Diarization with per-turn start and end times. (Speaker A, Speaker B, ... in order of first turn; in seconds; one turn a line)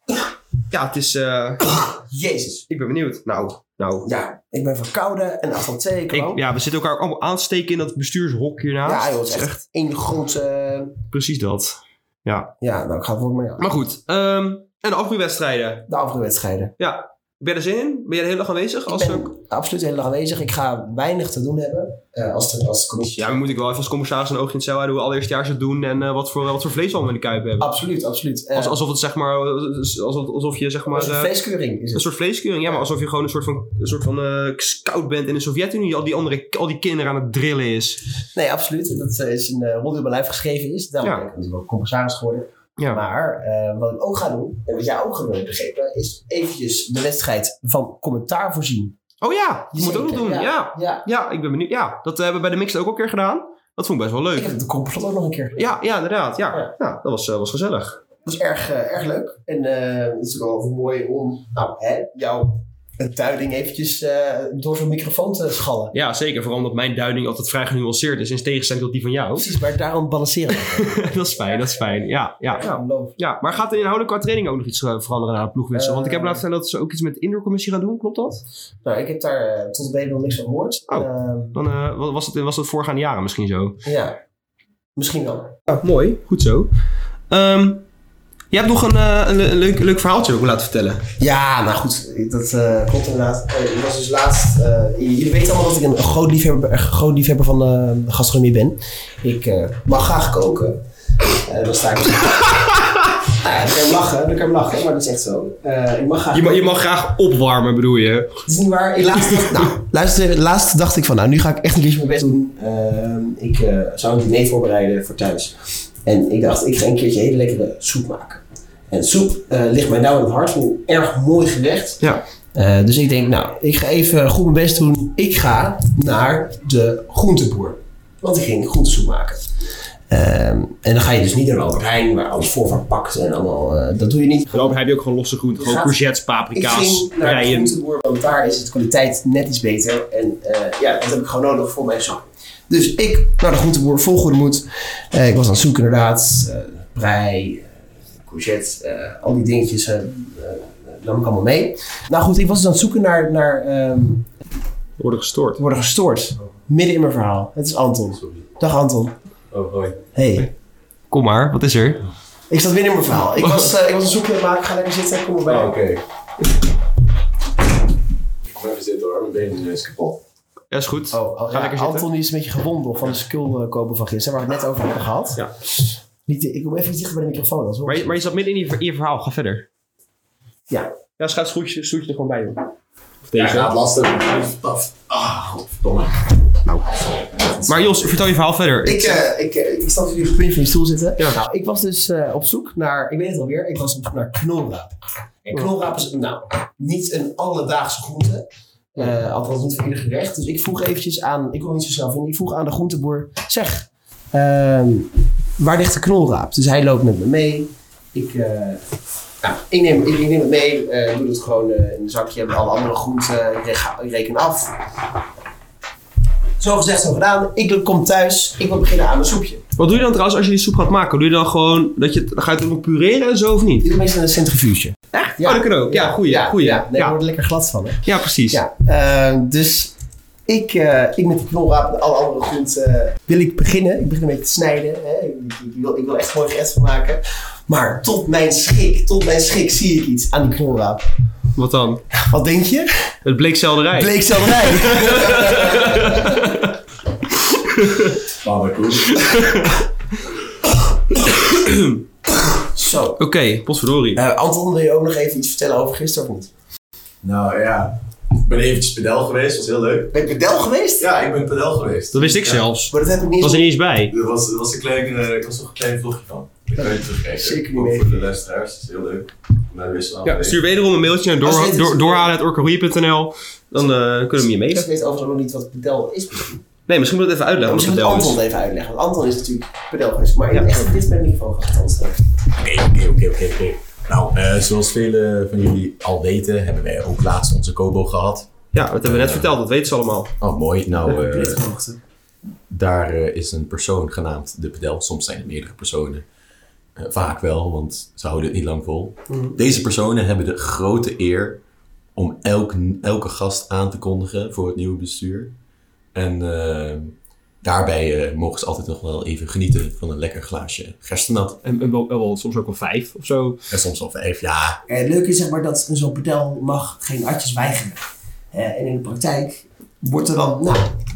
Speaker A: 0.7-1.7
Speaker B: 1.6-2.7
Speaker A: 2.7-4.1
Speaker B: 4.0-6.4
Speaker A: 6.1-9.6
Speaker B: 8.8-11.0
Speaker A: 11.1-12.5
Speaker B: 12.6-13.7
Speaker A: 13.6-15.9
Speaker B: 15.9-16.7
Speaker A: 16.8-19.3
Speaker B: 18.9-23.3
Speaker A: 23.1-27.7
Speaker B: 27.6-28.8
Speaker A: 28.5-31.3
Speaker B: 30.9-32.1
Speaker A: 31.9-38.1
Speaker B: 38.4-49.0
Speaker A: 42.8-43.0
Speaker A: 49.2-54.5
Speaker B: 49.7-51.0
Speaker B: 54.3-55.8
Speaker A: 55.6-58.0
Speaker B: 58.2-66.0
Speaker A: 65.9-69.5
Speaker B: 69.4-73.3
Speaker A: 70.5-78.4
Speaker B: 75.7-76.5
Speaker B: 78.8-81.6
Speaker A: 80.9-83.8
Speaker B: 83.8-84.2
Speaker B: 85.0-85.6
Speaker A: 85.7-86.7
Speaker A: 87.3-87.8
Speaker A: 88.5-91.1
Speaker B: 91.2-102.7
Speaker A: 102.3-103.1
Speaker B: 103.2-106.8
Speaker A: 106.3-108.4
Speaker B: 108.5-122.0
Speaker B: 122.5-129.5
Speaker B: 130.1-134.7
Speaker A: 134.5-137.7
Speaker B: 135.6-136.0
Speaker B: 136.5-147.7
Speaker B: 148.2-154.3
Speaker A: 155.0-155.6
Speaker B: 155.6-159.2
Speaker C: 159.5-160.0
Speaker B: 160.1-160.5
Speaker A: 161.1-162.0
Speaker B: 162.5-165.8
Speaker A: 163.4-163.7
Speaker C: 165.5-166.0
Speaker C: 168.5-170.2
Speaker A: 170.7-172.1
Speaker B: 171.1-178.2
Speaker A: 177.8-179.7
Speaker A: 181.2-182.6
Speaker A: 183.3-183.7
Speaker C: 183.4-186.2
Speaker B: 186.8-188.0
Speaker A: 187.7-189.2
Speaker B: 188.8-208.8
Speaker B: 209.4-214.8
Speaker B: 216.6-219.7
Speaker A: 219.8-223.9
Speaker B: 223.8-229.9
Speaker A: 225.1-227.2
Speaker A: 228.1-228.6
Speaker B: 230.5-241.1
Speaker A: 241.6-242.0
Speaker B: 242.1-243.1
Speaker A: 243.2-246.7
Speaker B: 243.9-246.5
Speaker A: 247.5-248.2
Speaker C: 248.2-249.7
Speaker A: 249.3-249.7
Speaker A: 251.1-252.0
Speaker B: 252.4-253.2
Speaker A: 253.2-254.2
Speaker B: 254.1-256.5
Speaker C: 257.2-260.4
Speaker B: 260.1-261.2
Speaker C: 261.0-262.7
Speaker A: 262.1-264.1
Speaker B: 262.9-263.7
Speaker C: 264.1-270.6
Speaker B: 266.8-268.3
Speaker A: 270.2-274.9
Speaker B: 271.4-272.3
Speaker B: 273.8-276.6
Speaker A: 276.9-278.4
Speaker B: 277.6-282.3
Speaker A: 280.5-280.8
Speaker C: 282.6-288.5
Speaker A: 288.7-290.3
Speaker C: 289.0-289.5
Speaker C: 290.4-291.6
Speaker B: 291.0-292.0
Speaker C: 292.7-296.2
Speaker C: 297.0-301.6
Speaker B: 299.3-299.6
Speaker C: 302.1-305.5
Speaker C: 306.1-311.6
Speaker A: 311.6-313.6
Speaker C: 313.7-314.8
Speaker B: 314.9-318.0
Speaker B: 318.5-320.9